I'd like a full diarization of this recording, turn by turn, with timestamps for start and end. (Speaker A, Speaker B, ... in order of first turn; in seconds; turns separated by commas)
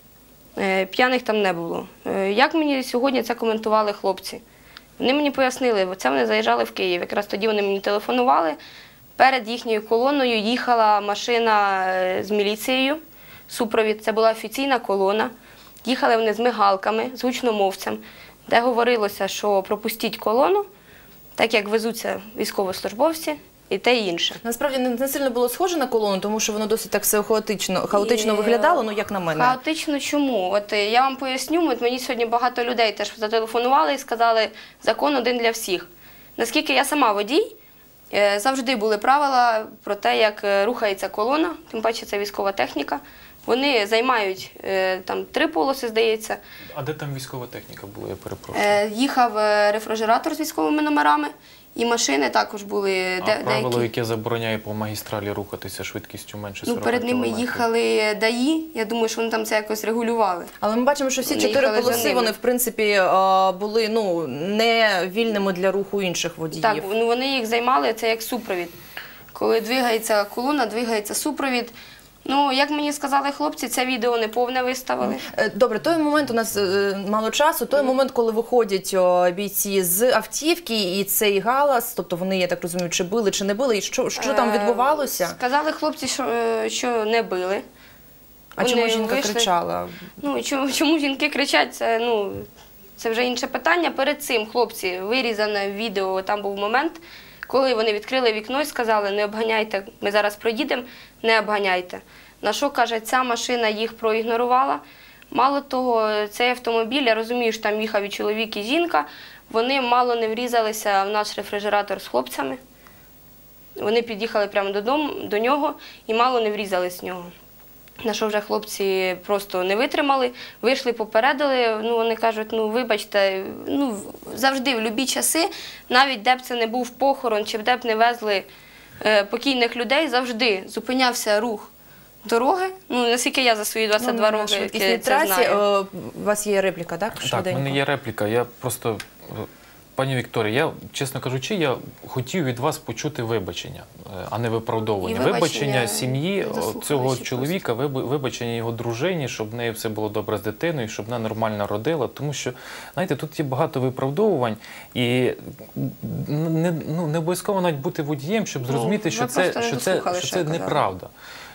Speaker A: 0.6-4.4, Speaker A: 5.0-8.6, Speaker A: 9.2-15.3, Speaker A: 15.8-20.7, Speaker A: 21.4-24.4, Speaker B: 24.4-29.6, Speaker A: 27.9-37.5, Speaker A: 38.1-46.4, Speaker C: 46.8-48.8, Speaker A: 48.5-53.9, Speaker C: 53.2-57.7, Speaker A: 56.6-60.5, Speaker B: 60.6-66.9, Speaker A: 61.2-62.3, Speaker A: 66.5-68.8, Speaker A: 69.3-75.2, Speaker B: 75.0-85.4, Speaker A: 84.2-87.6, Speaker B: 88.6-90.0, Speaker A: 88.6-89.5, Speaker A: 90.2-112.6, Speaker A: 113.8-117.3, Speaker A: 118.0-128.5, Speaker A: 129.0-131.7, Speaker A: 132.2-135.6, Speaker B: 134.0-137.8, Speaker C: 137.2-161.1, Speaker A: 145.0-147.6, Speaker A: 158.6-160.9